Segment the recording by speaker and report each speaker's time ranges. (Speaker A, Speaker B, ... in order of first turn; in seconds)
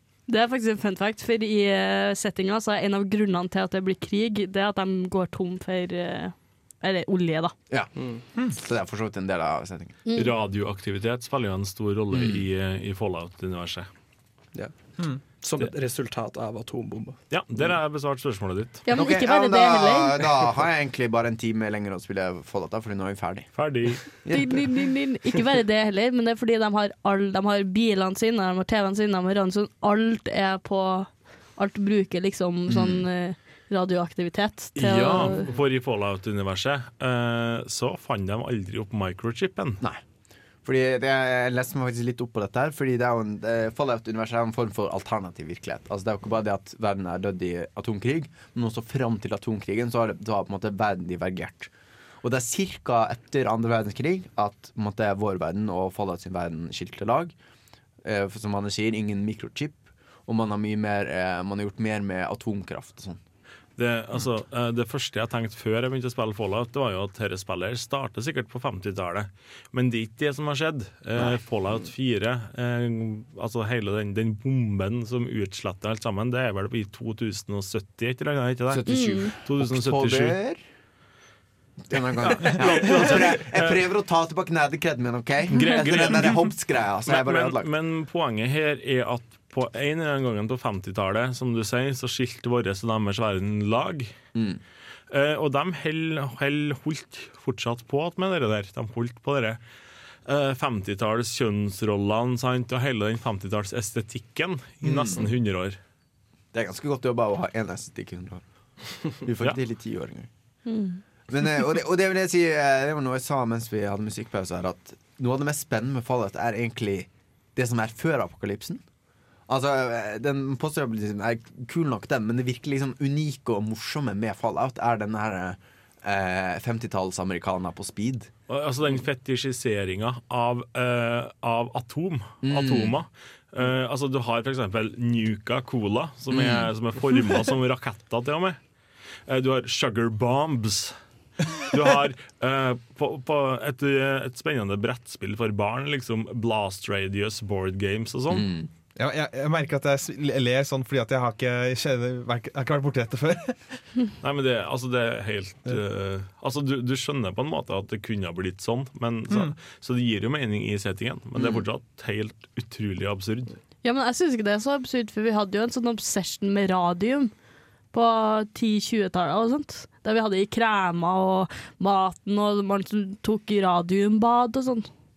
Speaker A: 0.3-7.5, 10.1-10.3, 18.9-20.2, 24.3-35.5, 78.9-79.3, 110.7-111.0, 163.8-167.3, 167.9-174.9
Speaker B: 7.7-10.0, 12.1-12.4, 18.9-24.7, 32.7-33.0, 34.8-35.6, 40.6-51.7, 52.2-57.3, 58.0-63.2, 78.7-80.6, 81.9-87.7, 94.3-94.6, 104.8-105.3, 106.5-108.4, 108.9-110.3, 111.3-118.8, 119.5-128.3, 132.4-132.9, 136.3-136.7, 148.3-148.7, 161.3-161.6
Speaker C: 8.0-8.2, 14.5-17.2
Speaker D: 10.1-13.9, 17.3-18.8, 23.6-24.0, 34.8-39.8, 63.8-80.4, 82.2-83.9, 85.5-94.1, 95.1-99.6, 100.2-105.8, 128.5-138.6, 139.3-140.9, 141.6-148.5, 154.2-163.5
Speaker E: 149.0-153.6, 159.3-159.6